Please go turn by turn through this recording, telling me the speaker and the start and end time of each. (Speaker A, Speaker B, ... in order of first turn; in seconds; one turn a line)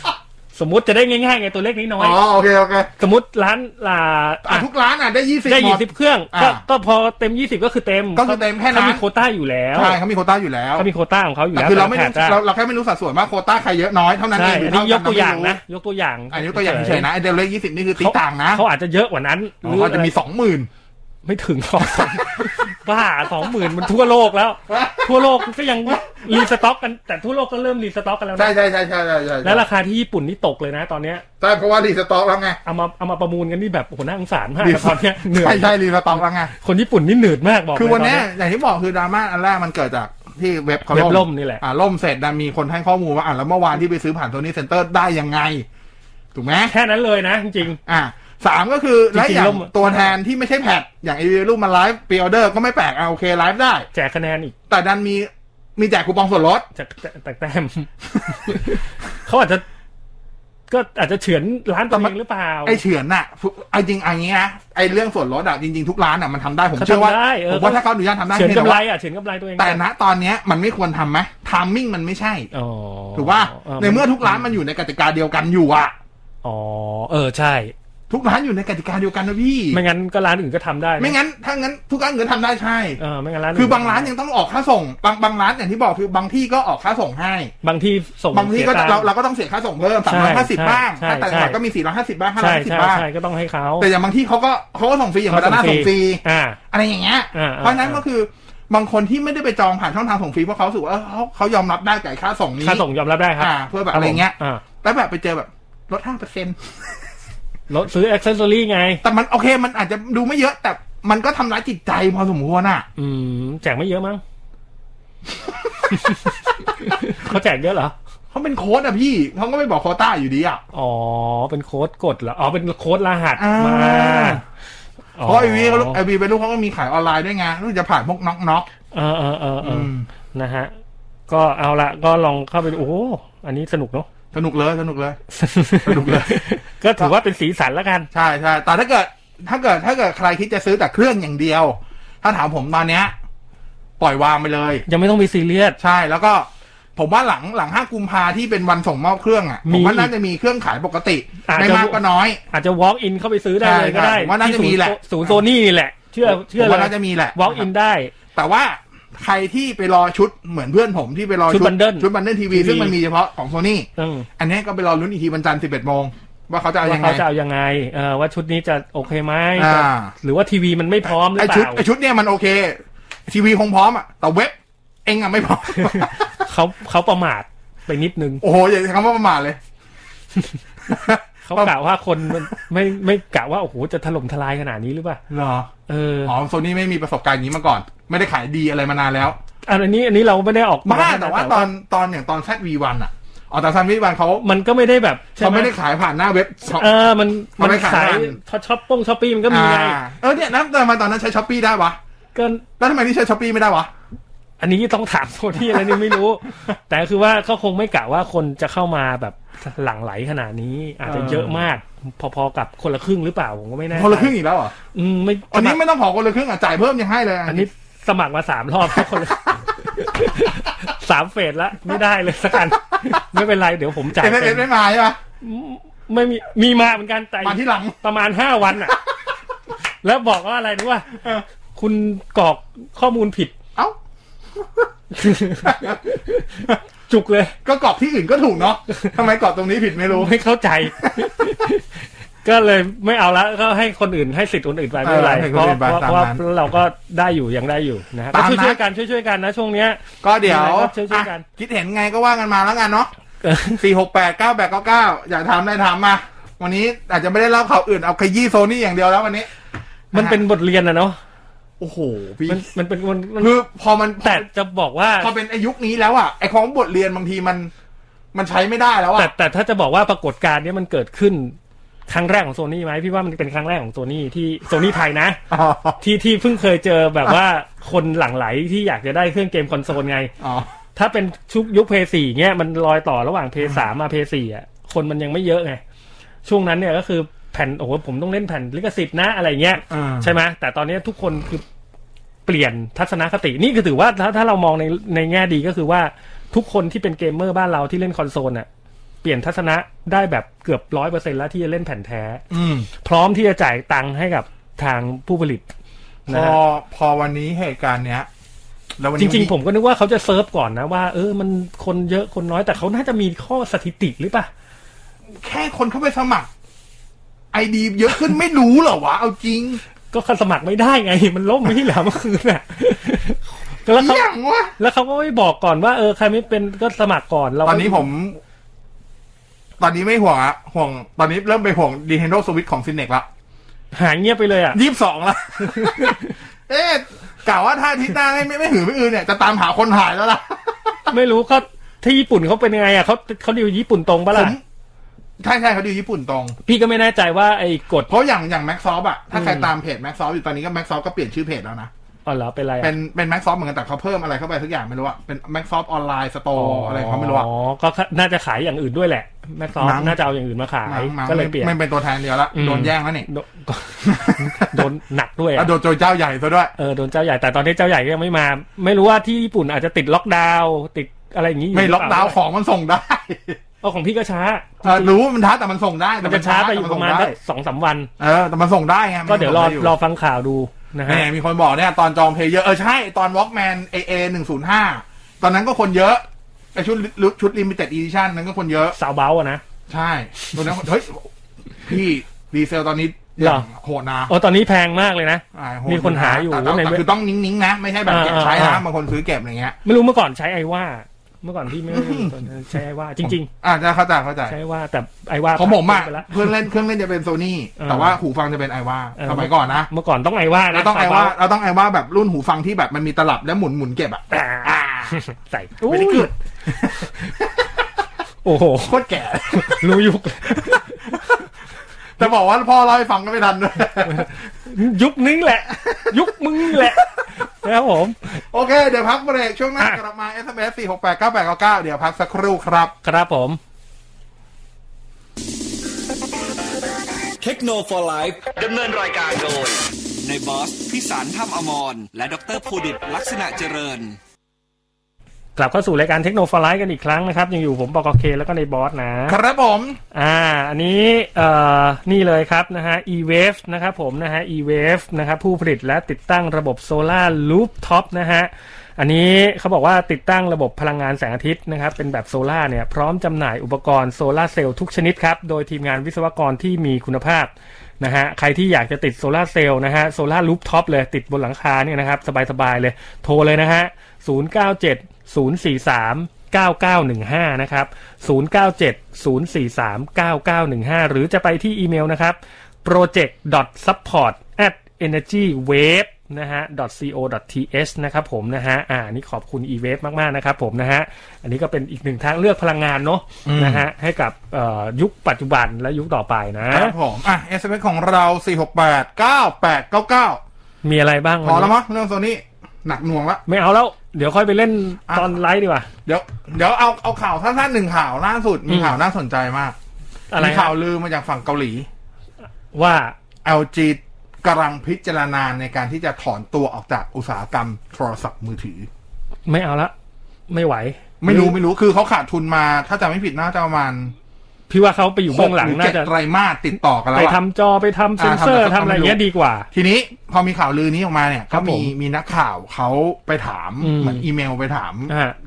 Speaker A: 0.5-2.2
Speaker B: 2.0-2.9
Speaker A: 3.0-4.7
Speaker B: 4.4-6.6
Speaker A: 5.5-10.0
Speaker B: 8.1-9.0
Speaker B: 9.7-10.9
Speaker A: 10.8-12.4
Speaker B: 11.5-15.6
Speaker A: 14.3-17.1
Speaker B: 16.3-18.6
Speaker A: 18.0-20.1
Speaker B: 19.6-20.7
Speaker A: 21.2-28.5
Speaker B: 21.8-22.5
Speaker B: 24.7-26.5
Speaker B: 28.4-29.6
Speaker A: 29.4-31.2
Speaker B: 31.4-32.6
Speaker A: 32.6-38.3
Speaker B: 34.6-36.5
Speaker B: 37.7-45.6
Speaker A: 40.9-41.6
Speaker B: 46.3-46.7
Speaker A: 46.7-47.8
Speaker B: 47.9-53.9
Speaker A: 49.1-50.1
Speaker A: 53.9-54.5
Speaker B: 54.7-56.6
Speaker A: 56.7-59.6
Speaker B: 58.3-58.6
Speaker A: 60.7-62.8
Speaker B: 62.6-68.8
Speaker A: 66.7-69.8
Speaker B: 69.6-72.5
Speaker A: 72.5-74.5
Speaker B: 73.1-75.9
Speaker A: 76.4-77.7
Speaker B: 78.1-79.8
Speaker A: 79.7-81.2
Speaker B: 81.0-83.0
Speaker A: 83.0-84.1
Speaker B: 83.5-87.5
Speaker A: 87.6-89.1
Speaker B: 88.3-93.0
Speaker A: 90.1-91.6
Speaker A: 92.4-93.9
Speaker B: 93.8-102.8
Speaker A: 95.3-96.6
Speaker A: 97.3-98.0
Speaker A: 102.6-104.6
Speaker B: 103.4-106.7
Speaker A: 107.7-109.0
Speaker B: 109.0-112.8
Speaker A: 113.0-114.2
Speaker B: 115.3-116.3
Speaker A: 115.9-117.9
Speaker B: 118.3-120.6
Speaker A: 120.7-124.4
Speaker B: 123.4-124.4
Speaker A: 125.2-126.0
Speaker B: 125.2-128.7
Speaker A: 128.9-130.7
Speaker B: 129.6-130.1
Speaker A: 131.3-134.1
Speaker B: 134.3-135.2
Speaker A: 135.3-138.1
Speaker B: 135.8-136.4
Speaker B: 138.1-143.1
Speaker B: 144.0-144.8
Speaker A: 144.9-145.8
Speaker B: 145.8-152.4
Speaker A: 149.7-150.1
Speaker A: 151.4-158.1
Speaker B: 153.6-155.4
Speaker B: 156.2-157.7
Speaker B: 158.3-167.2
Speaker A: 161.5-162.9
Speaker A: 164.0-164.3
Speaker A: 166.8-171.8
Speaker B: 169.6-170.1
Speaker B: 171.3-176.4
Speaker A: 175.7-178.4
Speaker B: 178.4-179.6
Speaker B: 180.9-181.7
Speaker A: 181.4-185.2
Speaker B: 185.3-185.7
Speaker A: 185.9-186.3
Speaker B: 186.2-189.4
Speaker A: 189.7-191.7
Speaker B: 190.8-194.4
Speaker A: 194.4-195.7
Speaker B: 195.4-196.9
Speaker A: 196.8-200.0
Speaker B: 197.6-198.4
Speaker B: 199.5-202.0
Speaker A: 202.3-202.6
Speaker B: 202.8-203.9
Speaker A: 204.6-214.3
Speaker B: 205.7-206.2
Speaker B: 211.0-211.7
Speaker B: 213.9-214.7
Speaker A: 214.9-215.8
Speaker B: 215.5-217.7
Speaker A: 217.5-224.7
Speaker B: 218.9-219.6
Speaker B: 224.2-225.2
Speaker A: 225.4-229.0
Speaker B: 227.4-228.0
Speaker B: 228.9-229.1
Speaker A: 230.0-231.1
Speaker B: 231.2-231.4
Speaker A: 231.8-233.5
Speaker B: 234.5-234.9
Speaker A: 235.1-237.5
Speaker B: 235.6-236.0
Speaker B: 237.6-240.3
Speaker A: 240.1-241.9
Speaker B: 240.9-241.5
Speaker A: 242.4-251.4
Speaker B: 245.0-246.4
Speaker B: 248.3-248.8
Speaker B: 250.2-253.1
Speaker A: 253.4-253.8
Speaker B: 253.7-259.5
Speaker B: 260.1-260.4
Speaker A: 260.1-261.2
Speaker B: 261.8-262.6
Speaker A: 262.5-263.5
Speaker B: 263.4-264.4
Speaker A: 264.2-265.3
Speaker B: 265.2-267.7
Speaker B: 268.3-269.3
Speaker A: 269.1-271.6
Speaker A: 272.1-275.4
Speaker B: 275.5-276.0
Speaker A: 276.0-280.3
Speaker B: 280.4-280.7
Speaker A: 280.9-285.8
Speaker A: 286.4-291.6
Speaker B: 289.9-290.3
Speaker A: 292.4-298.7
Speaker A: 299.2-302.4
Speaker B: 302.5-302.9
Speaker A: 303.0-305.7
Speaker A: 306.3-306.6
Speaker B: 306.3-308.3
Speaker B: 309.0-309.5
Speaker A: 309.2-314.5
Speaker B: 315.4-316.5
Speaker B: 317.5-319.8
Speaker A: 320.1-324.3
Speaker B: 323.9-324.7
Speaker A: 324.8-328.1
Speaker B: 327.6-328.4
Speaker B: 329.8-333.3
Speaker A: 333.9-334.8
Speaker B: 334.7-341.1
Speaker A: 335.6-336.3
Speaker A: 341.1-344.6
Speaker B: 344.3-344.6
Speaker B: 345.4-346.6
Speaker A: 346.6-348.1
Speaker B: 348.1-351.9
Speaker A: 349.3-349.7
Speaker A: 352.2-352.9
Speaker B: 352.8-357.5
Speaker A: 356.5-361.7
Speaker B: 359.8-360.2
Speaker B: 360.9-363.3
Speaker A: 362.5-365.7
Speaker B: 364.0-364.8
Speaker B: 365.6-366.7
Speaker A: 366.8-372.4
Speaker B: 371.7-373.6
Speaker A: 373.8-375.1
Speaker B: 374.8-377.3
Speaker A: 376.2-378.1
Speaker B: 378.2-379.9
Speaker A: 379.2-381.3
Speaker B: 381.1-386.2
Speaker B: 386.7-388.9
Speaker A: 388.9-389.6
Speaker B: 389.9-391.3
Speaker B: 391.8-394.3
Speaker A: 393.4-393.7
Speaker A: 394.3-397.0
Speaker B: 395.5-399.8
Speaker A: 398.1-398.8
Speaker A: 399.8-403.5
Speaker B: 401.9-402.4
Speaker B: 403.2-404.5
Speaker A: 404.5-406.5
Speaker B: 405.5-409.9
Speaker A: 407.8-408.1
Speaker A: 409.2-411.3
Speaker B: 410.7-415.2
Speaker A: 414.3-416.3
Speaker B: 415.8-417.8
Speaker A: 416.9-417.3
Speaker A: 418.4-419.0
Speaker B: 418.8-421.4
Speaker A: 419.5-421.4
Speaker B: 422.2-424.3
Speaker A: 424.0-428.3
Speaker B: 425.8-427.2
Speaker B: 428.5-432.9
Speaker A: 433.0-433.6
Speaker C: 437.4-444.2
Speaker A: 445.6-449.4
Speaker B: 449.3-450.0
Speaker A: 450.1-496.9
Speaker B: 493.4-493.8
Speaker B: 496.7-500.4
Speaker A: 500.8-501.7
Speaker B: 501.4-503.4
Speaker A: 503.4-505.9
Speaker B: 505.1-505.3
Speaker B: 506.1-509.8
Speaker A: 508.7-508.9
Speaker A: 510.3-510.7
Speaker B: 510.4-511.9
Speaker A: 512.7-513.1
Speaker B: 513.4-518.9
Speaker A: 519.5-519.9
Speaker A: 520.5-521.6
Speaker B: 521.2-524.1
Speaker A: 524.7-526.1
Speaker B: 525.3-527.4
Speaker A: 527.1-529.7
Speaker B: 528.2-535.1
Speaker A: 531.5-531.9
Speaker A: 533.8-534.2
Speaker A: 535.1-535.3